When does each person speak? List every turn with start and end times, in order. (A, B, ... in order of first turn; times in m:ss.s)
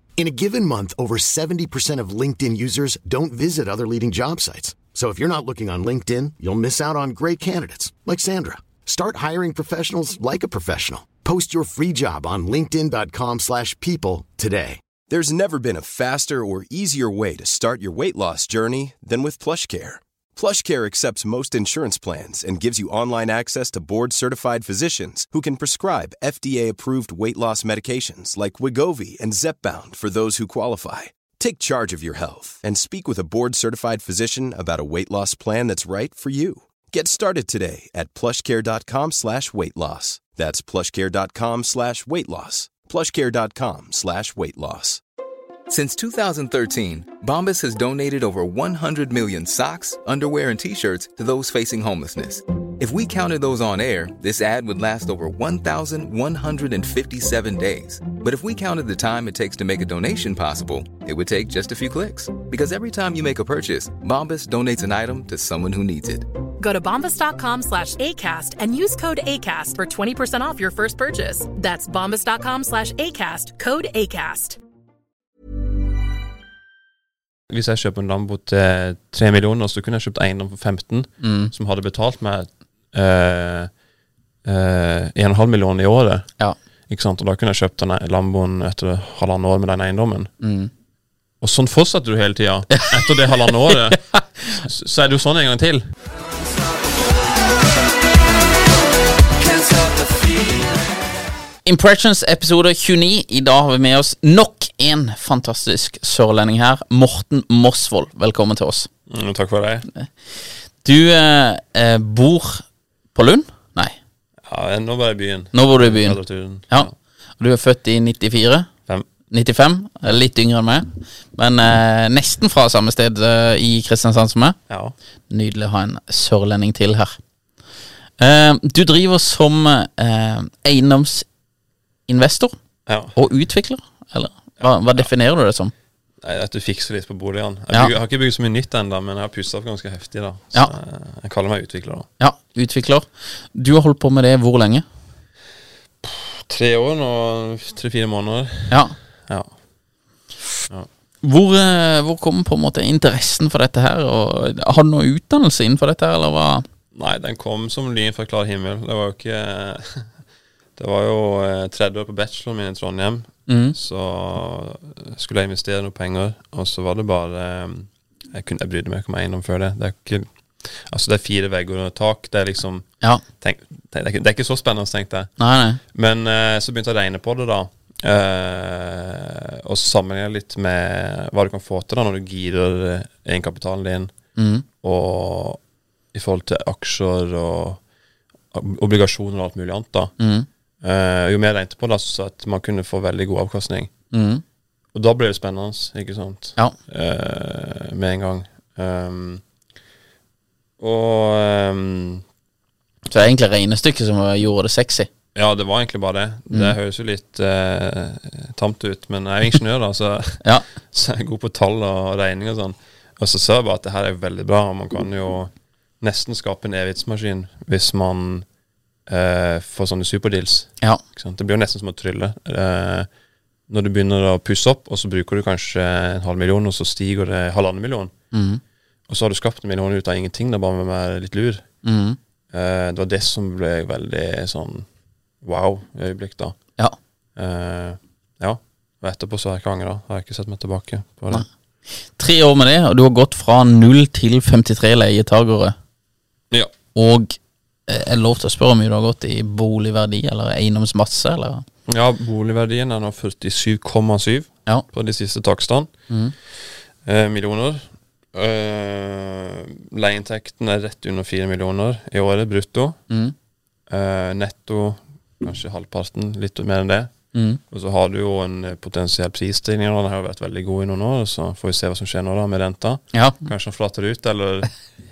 0:00.2-0:14.8 A
0:15.1-0:45.0 B
0:45.7-1:06.3 C
1:06.6-1:14.6 D
1:17.5-1:23.7 E
1:21.2-1:21.5 F
1:24.4-1:30.3 E
1:30.4-1:30.7 F
1:31.4-1:34.0 E
1:32.7-1:34.6 F
1:34.5-1:35.9 E
1:41.6-1:48.9 F
1:49.1-1:49.9 E
1:50.0-1:54.0 F
1:54.5-1:56.9 E
1:55.5-1:58.7 F
1:59.3-2:04.6 F
2:04.7-2:04.9 E
2:05.3-2:07.2 F
2:08.2-2:11.3 F
2:12.1-2:12.6 F
2:12.9-2:13.2 E
2:13.1-2:15.7 F
2:14.6-2:15.1 E
2:16.2-2:22.1 E
2:22.2-2:24.9 F
2:26.0-2:29.6 E
2:28.7-2:29.0 F
2:31.2-2:36.7 F
2:36.9-2:40.2 E
2:40.8-3:05.6 E
2:43.5-2:43.8 F
2:55.4-2:55.8 F
3:04.4-3:04.6 F
3:06.1-3:07.8 E
3:08.5-3:10.2 E
3:10.2-3:10.5 F
3:10.8-3:13.9 E
3:14.1-3:14.4 F
3:14.9-3:19.4 E
3:20.8-3:22.2 E
3:23.1-3:25.1 F
3:25.4-3:38.5 E
3:39.1-3:43.1 E
3:43.7-3:48.1 E
3:48.3-3:48.6 F
3:49.1-3:51.8 E
3:51.8-3:52.2 F
3:52.5-3:54.9 E
3:55.4-3:56.8 E
3:57.4-4:01.5 E
4:02.0-4:05.8 F
4:07.0-4:11.6 F
4:11.9-4:23.0 E
4:23.9-4:34.7 E
4:27.3-4:27.6 F
4:33.1-4:33.4 F